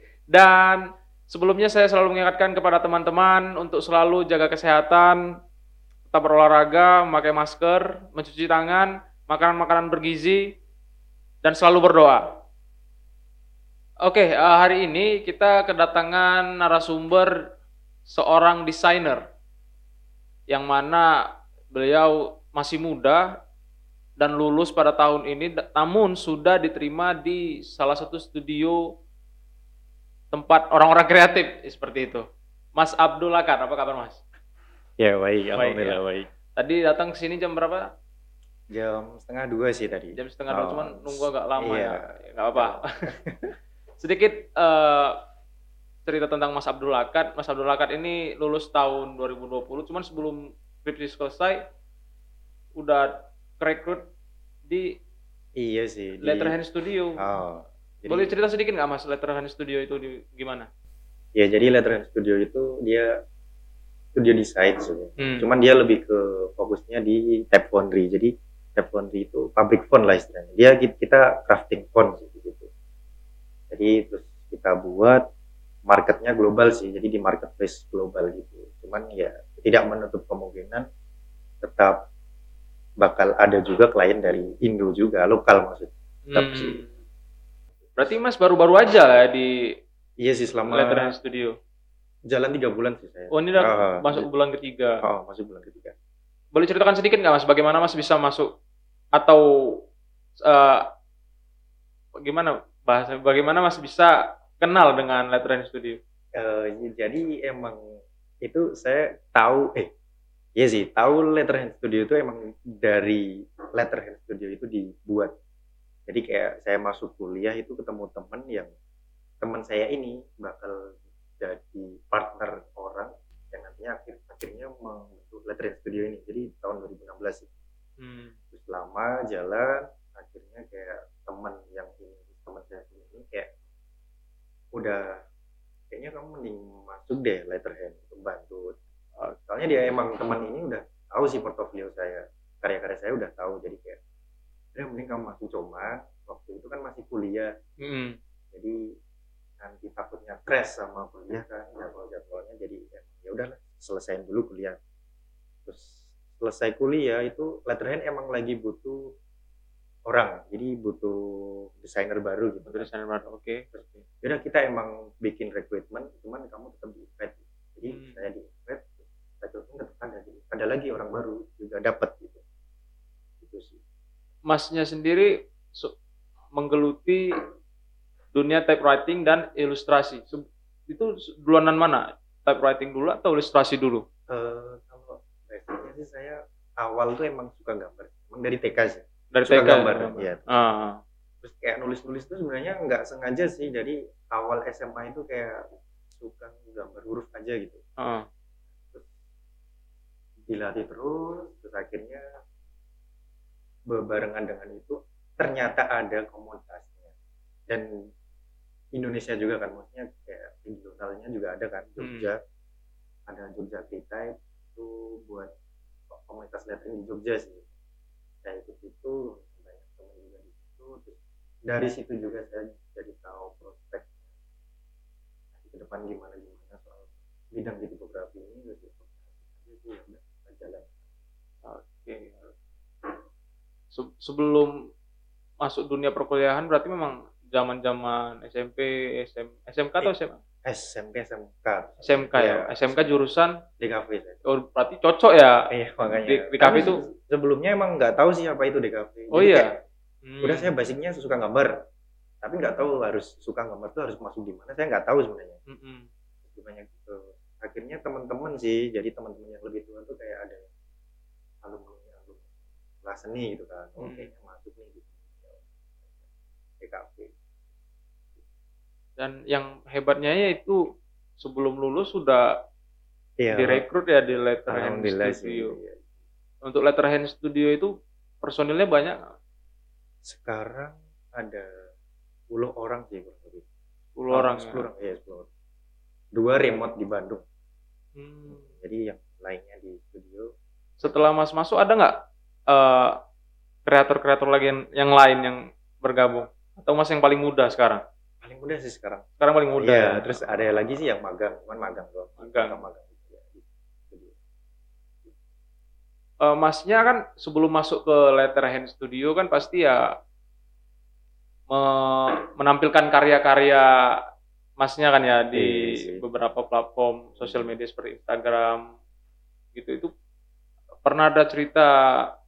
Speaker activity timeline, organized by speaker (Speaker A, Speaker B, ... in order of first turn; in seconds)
Speaker A: 0.3-5.2, 6.1-10.4, 11.4-12.2, 14.0-17.3, 18.1-19.2, 20.5-21.1, 21.7-23.2, 24.2-28.8, 30.3-32.2, 32.8-34.2, 35.5-36.0, 36.5-37.8, 40.1-42.8, 44.0-45.1, 46.0-51.6, 52.8-53.1, 53.6-54.0, 56.2-57.2, 58.0-60.7, 65.2-65.5, 86.3-86.9, 88.0-89.5, 90.7-91.5, 93.3-94.9, 96.5-98.5, 99.2-99.4, 100.4-100.8, 102.2-106.0, 128.0-128.3, 147.8-148.2, 162.7-164.0, 167.8-168.2, 174.4-175.9, 176.5-177.2, 178.3-184.0, 189.3-191.0, 198.0-198.2, 212.0-212.3, 231.6-232.5, 233.9-234.7, 235.6-240.4, 242.0-243.5, 244.4-245.6, 246.1-247.0, 249.3-249.7, 250.2-250.7, 255.7-256.1, 264.0-264.3, 269.2-270.8, 271.4-272.4, 273.5-275.8, 276.6-277.9, 278.4-279.3, 284.1-284.9, 288.2-288.7, 291.0-292.1, 292.7-293.1, 293.9-298.0, 299.4-300.6, 302.4-302.8, 306.4-310.0, 311.7-313.8, 314.8-318.8, 319.7-320.1, 321.0-321.9
Speaker B: 35.0-36.3, 38.7-43.5, 55.6-56.6, 57.2-58.3, 61.4-63.1, 64.1-72.7, 73.7-75.2, 75.9-80.8, 81.6-82.0, 83.0-86.8, 90.2-91.1, 92.3-94.3, 95.0-95.9, 106.3-109.9, 110.6-115.3, 116.1-118.7, 119.4-120.8, 121.4-127.5, 128.5-133.5, 134.7-135.2, 135.9-138.7, 139.5-144.0, 144.7-147.5, 148.5-148.8, 149.6-154.8, 155.7-159.0, 160.1-162.9, 163.7-172.4, 173.4-173.8, 184.3-190.6, 191.4-195.6, 196.1-197.8, 200.5-202.3, 203.9-207.1, 208.9-212.4, 213.3-215.5, 216.1-217.7, 218.4-224.1, 225.6-230.9, 240.6-243.1, 243.8-244.3, 245.7-249.8, 250.4-251.7, 252.4-255.6, 256.4-260.7, 261.6-262.5, 263.0-265.6, 266.8-267.3, 273.4-273.8, 274.7-276.0, 280.2-281.9, 282.5-283.6, 284.3-285.5, 286.3-287.4, 288.5-290.5, 298.4-299.2, 299.8-304.3, 315.5-316.2, 317.4-317.7